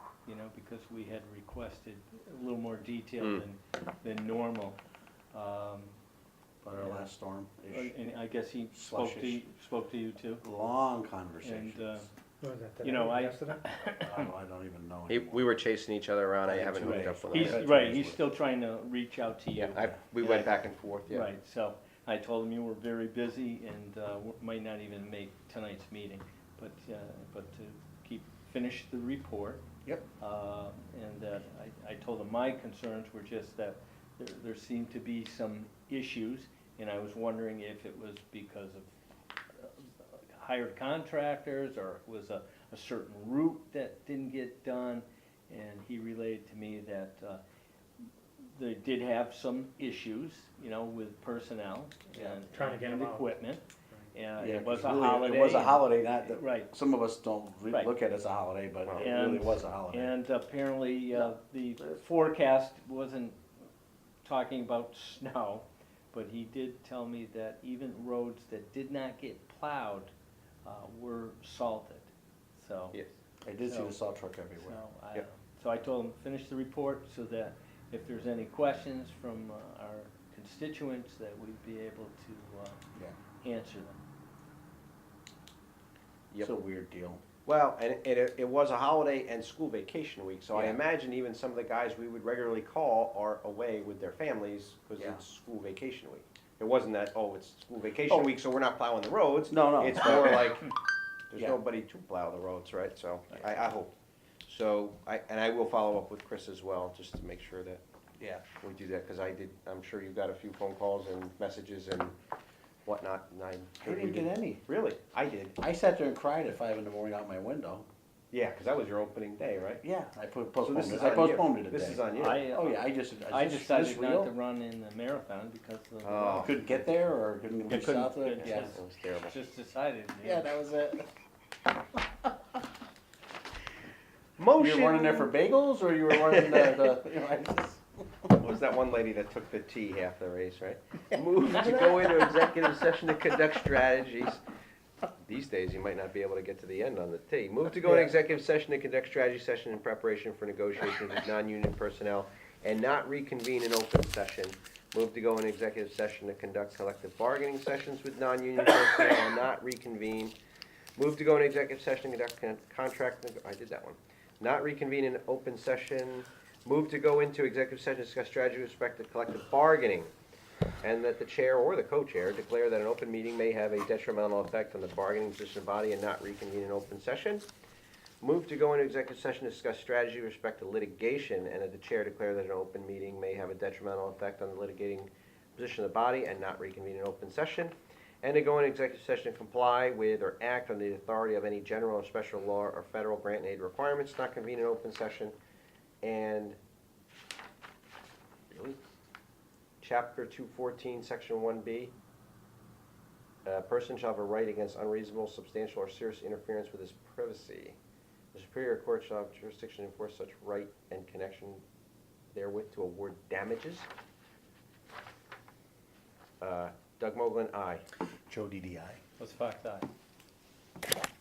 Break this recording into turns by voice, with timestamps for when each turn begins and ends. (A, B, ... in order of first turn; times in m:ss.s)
0:00.2-0:04.8 A
0:05.3-0:05.9 A
0:06.6-0:07.9 B
0:06.8-0:07.1 A
0:07.7-0:10.4 A
0:08.7-0:09.4 B
0:10.4-0:12.1 B
0:11.4-0:12.1 A
0:12.4-0:13.6 C
0:12.8-0:14.2 A
0:14.0-0:15.5 B
0:15.1-0:17.6 D
0:16.5-0:18.2 B
0:16.8-0:20.6 A
0:19.6-0:21.3 D
0:21.1-0:29.6 A
0:30.2-0:38.9 A
0:39.6-0:47.4 A
0:48.5-0:56.7 A
0:52.1-0:52.4 B
0:52.5-0:53.3 C
0:54.4-1:00.2 B
0:58.9-1:03.4 A
1:01.1-1:02.0 B
1:04.2-1:10.1 A
1:10.6-1:13.0 A
1:13.4-1:14.8 B
1:13.6-1:14.0 A
1:14.6-1:22.8 A
1:23.4-1:24.0 A
1:26.4-1:27.2 B
1:27.5-1:40.7 D
1:30.5-1:30.8 B
1:35.0-1:35.2 B
1:39.5-1:40.6 B
1:41.3-1:43.9 D
1:44.5-1:47.8 D
1:48.2-1:48.4 B
1:48.6-1:52.1 D
1:52.9-1:55.6 D
1:53.8-1:54.6 B
1:55.6-1:57.9 B
1:58.3-1:59.8 D
1:59.8-2:04.3 B
2:00.6-2:02.5 D
2:02.1-2:06.8 A
2:06.0-2:06.8 D
2:06.4-2:08.8 B
2:07.7-2:10.5 A
2:08.4-2:09.4 D
2:10.2-2:11.1 B
2:14.4-2:15.3 D
2:14.6-2:18.3 B
2:16.1-2:17.0 D
2:18.4-2:24.4 D
2:21.6-2:22.3 B
2:25.2-2:40.3 D
2:27.8-2:28.1 B
2:41.0-2:50.1 D
2:50.8-2:57.4 D
2:58.2-3:15.3 D
3:16.0-3:16.6 D
3:18.5-3:18.8 D
3:19.8-3:21.9 D
3:23.4-3:27.8 D
3:28.3-3:31.6 D
3:32.3-3:33.9 D
3:36.4-3:37.8 D
3:38.3-3:39.0 B
3:39.2-3:39.9 A